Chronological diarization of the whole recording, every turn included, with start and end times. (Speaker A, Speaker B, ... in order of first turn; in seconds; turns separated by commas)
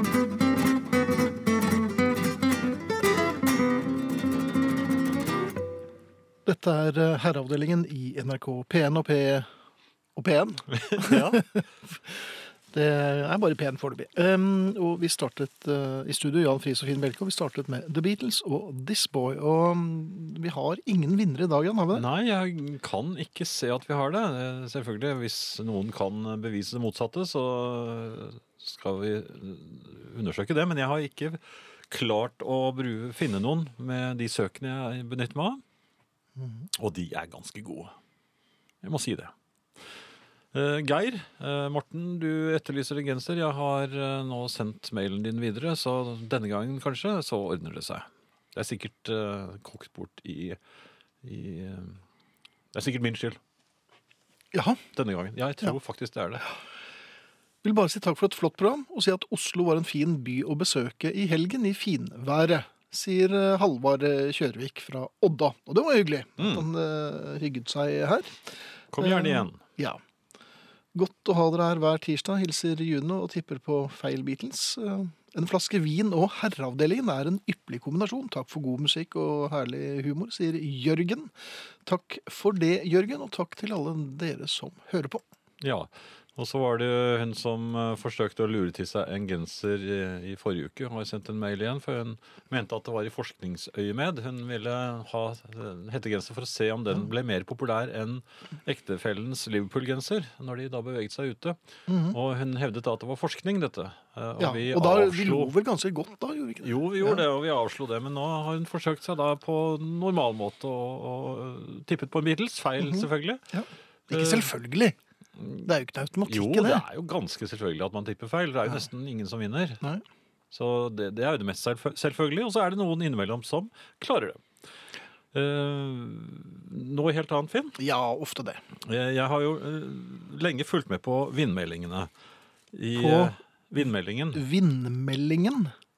Speaker A: 6.4-9.5, Speaker A: 10.2-22.1, Speaker B: 10.7-11.4, Speaker B: 21.9-31.4, Speaker B: 31.9-35.6, Speaker A: 36.4-36.7, Speaker B: 36.8-37.9, Speaker B: 38.8-39.3, Speaker B: 40.5-50.6, Speaker B: 51.2-52.0, Speaker B: 52.7-53.4, Speaker A: 54.5-54.8, Speaker B: 55.0-56.5, Speaker A: 57.6-68.5, Speaker B: 66.4-66.7, Speaker B: 68.9-69.6, Speaker A: 69.0-70.0, Speaker A: 70.9-85.2, Speaker B: 85.6-101.6, Speaker A: 101.9-102.2, Speaker B: 102.1-105.5, Speaker A: 104.4-107.2, Speaker B: 106.6-113.4, Speaker A: 112.8-115.0, Speaker B: 114.1-114.5, Speaker B: 115.4-115.6, Speaker A: 115.6-116.8, Speaker B: 116.3-119.8, Speaker B: 120.5-124.4, Speaker B: 125.3-127.8, Speaker A: 127.8-128.6, Speaker B: 128.9-132.1, Speaker B: 132.7-134.4, Speaker A: 132.9-133.3, Speaker A: 134.3-135.7